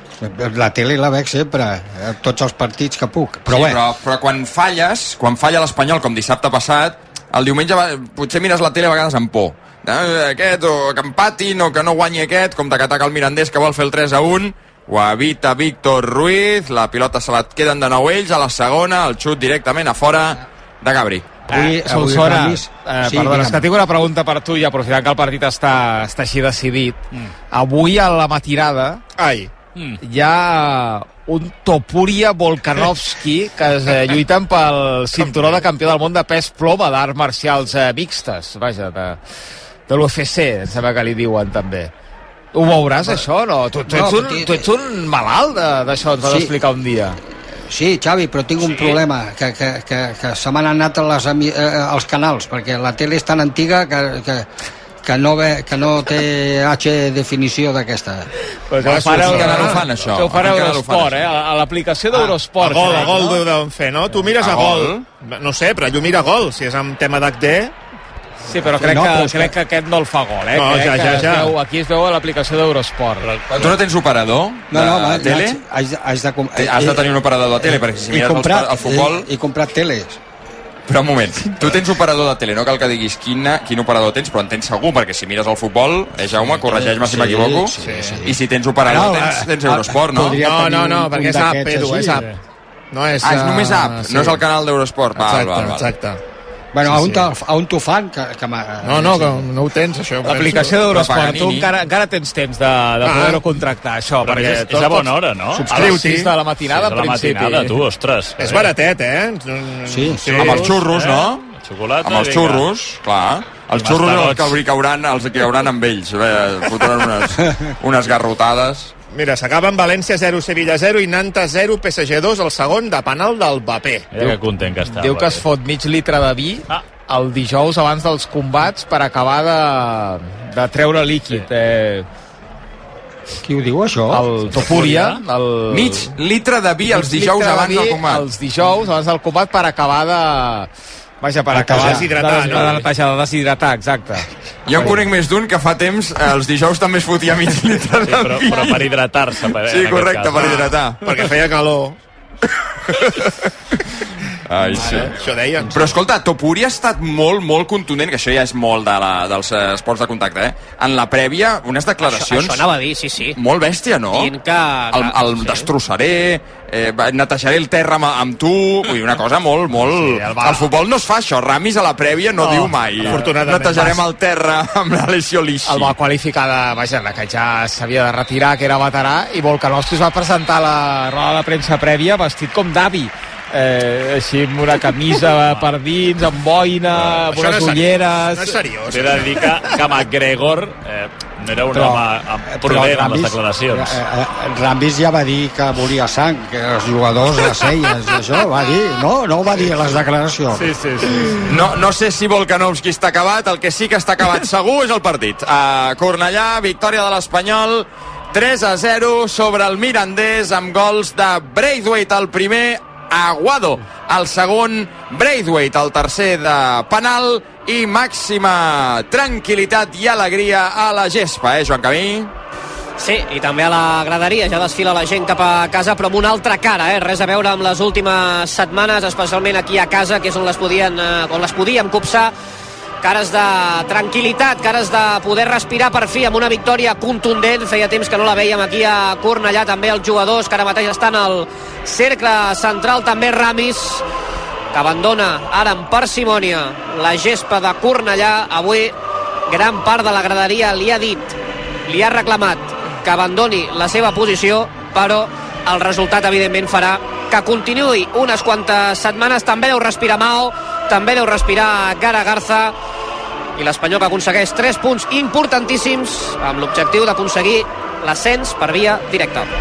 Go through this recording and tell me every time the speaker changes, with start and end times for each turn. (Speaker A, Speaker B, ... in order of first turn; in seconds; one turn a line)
Speaker A: 0.2-3.8
Speaker B: 3.5-21.3
Speaker A: 21.5-23.6
Speaker C: 21.5-29.0
Speaker D: 29.1-29.5
Speaker C: 30.0-39.2
Speaker D: 35.3-35.6
Speaker C: 39.9-41.9
Speaker C: 42.5-47.2
Speaker A: 43.9-44.7
Speaker A: 46.2-46.5
Speaker A: 47.2-54.5
Speaker A: 55.0-58.3
Speaker C: 58.7-63.4
Speaker B: 58.8-61.2
Speaker D: 59.1-59.6
Speaker D: 62.1-67.7
Speaker B: 64.4-65.0
Speaker C: 68.4-73.3
Speaker A: 68.8-69.5
Speaker D: 70.5-71.6
Speaker B: 73.5-75.6
Speaker A: 74.7-80.2
Speaker B: 76.6-79.3
Speaker B: 80.9-87.7
Speaker A: 86.4-92.3
Speaker D: 87.8-88.1
Speaker B: 88.2-90.4
Speaker D: 90.3-92.2
Speaker C: 92.1-92.3
Speaker D: 92.9-94.4
Speaker B: 93.2-95.9
Speaker D: 95.1-96.2
Speaker A: 96.7-99.5
Speaker D: 96.8-97.2
Speaker D: 98.8-100.8
Speaker C: 100.2-107.8
Speaker B: 100.9-101.7
Speaker D: 103.0-103.4
Speaker E: 104.2-106.1
Speaker D: 105.7-106.3
Speaker E: 106.6-108.7
Speaker D: 108.4-110.7
Speaker A: 109.8-110.3
Speaker E: 110.3-112.7
Speaker B: 110.3-111.4
Speaker B: 112.0-118.9
Speaker E: 113.7-114.6
Speaker D: 119.1-124.1
Speaker E: 124.1-125.5
Speaker C: 124.2-132.1
Speaker A: 133.4-134.6
Speaker C: 134.1-136.2
Speaker E: 134.5-135.2
Speaker B: 135.7-138.2
Speaker C: 136.8-140.7
Speaker C: 141.2-144.3
Speaker A: 141.5-142.1
Speaker D: 141.8-142.8
Speaker B: 144.7-148.8
Speaker A: 144.7-145.0
Speaker E: 148.1-150.7
Speaker B: 149.6-151.1
Speaker D: 150.4-152.0
Speaker B: 152.9-153.2
Speaker B: 154.4-162.6
Speaker D: 154.7-155.9
Speaker F: 162.0-163.4
Speaker B: 163.3-164.3
Speaker F: 164.1-165.7
Speaker B: 164.9-175.9
Speaker C: 169.8-170.7
Speaker C: 172.4-174.0
Speaker D: 173.1-173.9
Speaker C: 175.7-188.6
Speaker D: 187.2-189.4
Speaker E: 188.9-194.0
Speaker A: 191.7-200.7
Speaker E: 200.7-201.1
Speaker B: 201.5-222.3
Speaker F: 223.0-232.3
Speaker F: 233.0-244.0
Speaker F: 244.7-248.9
Speaker F: 249.5-251.3
Speaker F: 251.9-262.7
Speaker F: 263.6-269.5